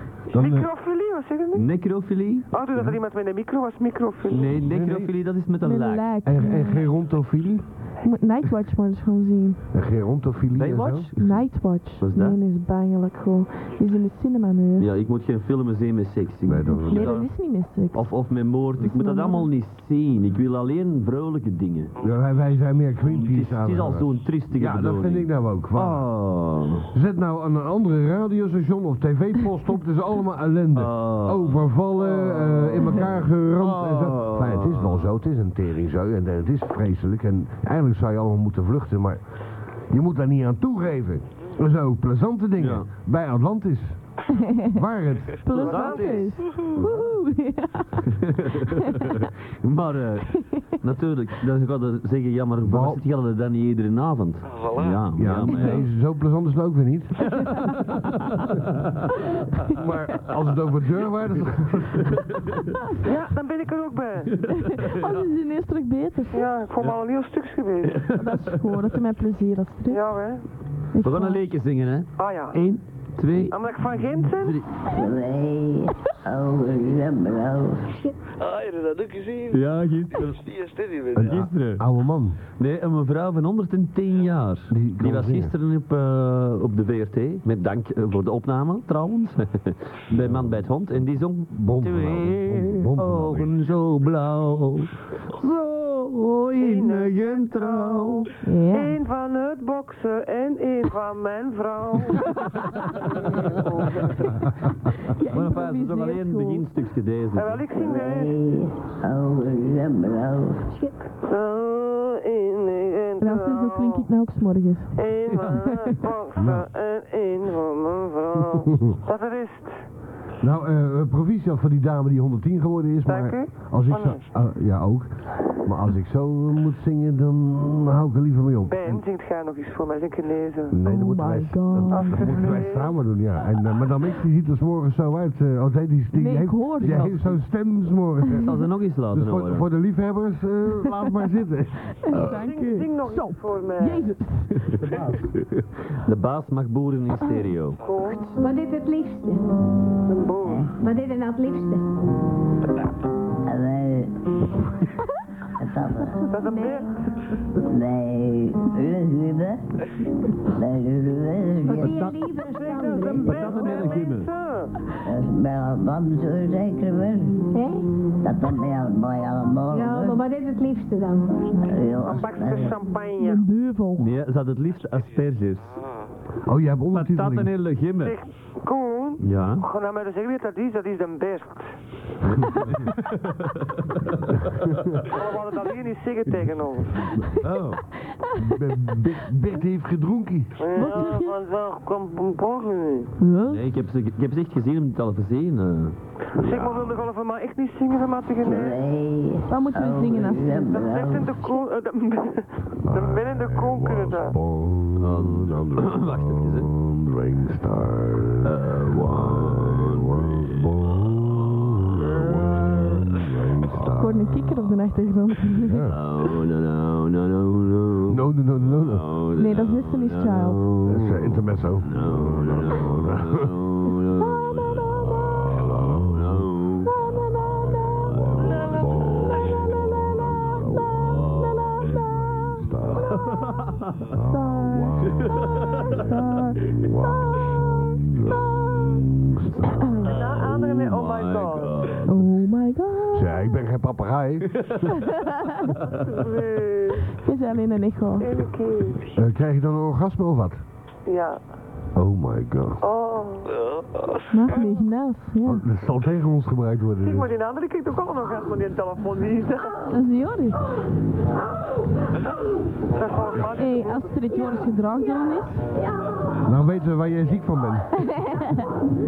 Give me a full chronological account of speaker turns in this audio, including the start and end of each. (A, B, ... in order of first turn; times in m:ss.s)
0:00.3-0:00.7 A
0:00.3-0:01.7 B
0:01.5-0:02.9 C
0:02.5-0:04.6 B
0:04.3-0:06.1 C
0:04.6-0:05.1 A
0:05.6-0:06.9 D
0:06.2-0:07.9 A
0:08.0-0:09.6 D
0:09.7-0:11.1 A
0:10.5-0:12.4 C
0:11.1-0:14.9 D
0:14.8-0:21.9 C
0:16.4-0:17.2 A
0:16.7-0:18.3 D
0:18.8-0:19.5 D
0:22.0-0:26.1 A
0:23.0-0:26.9 C
0:26.9-0:45.4 A
0:30.7-0:35.1 C
0:42.6-0:42.9 C
0:44.4-0:44.8 D
0:45.4-0:48.1 D
0:45.5-0:46.6 C
0:45.6-0:46.3 B
0:46.8-0:47.0 A
0:48.2-0:55.8 C
0:49.0-0:49.3 D
0:52.6-0:53.0 A
0:54.5-0:55.2 E
0:55.2-0:57.4 A
0:55.5-0:55.8 D
0:57.3-0:58.9 C
0:59.7-1:02.3 A
1:02.1-1:02.4 C
1:03.0-1:04.4 B
1:04.4-1:04.9 C
1:04.6-1:06.5 D
1:06.3-1:08.1 B
1:07.8-1:08.8 C
1:08.2-1:10.0 D
1:09.9-1:10.4 B
1:10.9-1:11.4 D
1:11.0-1:13.6 C
1:12.2-1:12.6 B
1:13.5-1:14.6 B
1:14.2-1:14.7 C
1:14.9-1:18.0 F
1:18.4-1:21.5 E
1:19.5-1:20.4 C
1:21.1-1:22.4 A
1:21.2-1:21.8 C
1:22.6-1:38.3 C
1:24.7-1:25.5 A
1:30.1-1:33.5 A
1:36.6-1:44.3 B
1:38.4-1:38.9 D
1:45.0-1:46.7 D
1:45.3-1:47.7 C
1:47.4-1:48.3 B
1:47.8-1:50.7 F
1:50.7-1:51.0 G
1:51.2-1:54.1 B
1:53.2-1:55.0 D
1:55.0-1:59.9 B
1:55.3-1:55.7 C
1:56.4-1:56.7 A
1:58.5-1:58.9 A
2:00.4-2:09.0 A
2:03.1-2:04.2 B
2:08.7-2:10.8 B
2:10.7-2:22.2 A
2:10.8-2:12.6 D
2:11.9-2:12.9 B
2:16.1-2:17.3 D
2:16.8-2:17.4 C
2:18.4-2:19.7 C
2:22.0-2:24.7 D
2:22.2-2:24.2 B
2:24.7-2:27.8 C
2:27.8-2:28.3 B
2:28.4-2:29.5 G
2:30.1-2:30.7 B
2:30.4-2:30.8 F
2:30.8-2:31.8 G
2:33.5-2:34.1 F
2:35.6-2:36.2 F
2:36.3-2:36.9 B
2:36.5-2:36.8 G
2:37.7-2:39.6 F
2:40.5-2:42.0 F
2:41.6-2:43.5 G
2:41.8-2:42.2 C
2:42.4-2:44.7 B
2:43.2-2:44.3 C
2:45.1-2:47.4 F
2:47.5-2:47.9 G
2:48.2-2:50.2 F
2:49.7-2:51.7 G
2:51.7-2:52.8 F
2:52.0-2:53.4 B
2:53.2-2:54.1 D
2:54.0-2:55.8 C
2:55.7-2:56.1 E
2:56.5-2:57.5 A
2:56.9-2:58.2 C
2:58.0-3:01.7 B
2:59.2-2:59.6 C
3:03.0-3:03.9 C
3:05.0-3:07.1 B
3:07.0-3:07.3 A
3:07.4-3:07.8 C
3:08.4-3:10.6 A
3:10.6-3:13.1 B
3:10.8-3:11.4 D
3:13.2-3:13.6 D
3:13.5-3:17.1 C
3:16.4-3:18.8 B
3:18.4-3:21.3 F
3:19.5-3:20.7 D
3:20.6-3:24.4 B
3:22.8-3:34.6 A
3:25.0-3:26.7 C
3:28.4-3:31.6 C
3:32.4-3:33.0 C
3:34.0-3:35.8 D
3:35.5-3:36.0 A
3:35.9-3:47.0 C
3:38.1-3:39.1 A
3:39.4-3:40.6 D
3:40.9-3:43.5 A
3:44.7-3:46.5 A
3:46.9-3:48.0 D
3:47.1-3:53.4 A
3:48.1-3:51.7 C
3:52.8-3:54.0 C
3:54.0-4:00.2 A
3:54.2-3:55.1 D
3:55.1-3:56.0 C
3:55.8-3:56.6 D
4:00.0-4:02.0 B
4:00.2-4:02.2 C
4:02.1-4:03.3 D
4:03.1-4:04.8 A
4:04.5-4:05.0 C
4:06.0-4:07.1 B
4:07.2-4:08.3 D
4:08.2-4:09.0 B
4:09.2-4:10.6 A
4:11.1-4:11.4 B
4:11.9-4:12.8 A
4:12.8-4:13.5 B
4:13.5-4:14.7 E
4:14.3-4:15.6 D
4:15.4-4:17.3 A
4:17.0-4:19.7 B
4:19.9-4:20.8 D
4:22.9-4:24.1 B
4:23.6-4:25.7 D
4:25.8-4:26.2 G
4:26.4-4:28.1 A
4:28.1-4:28.7 D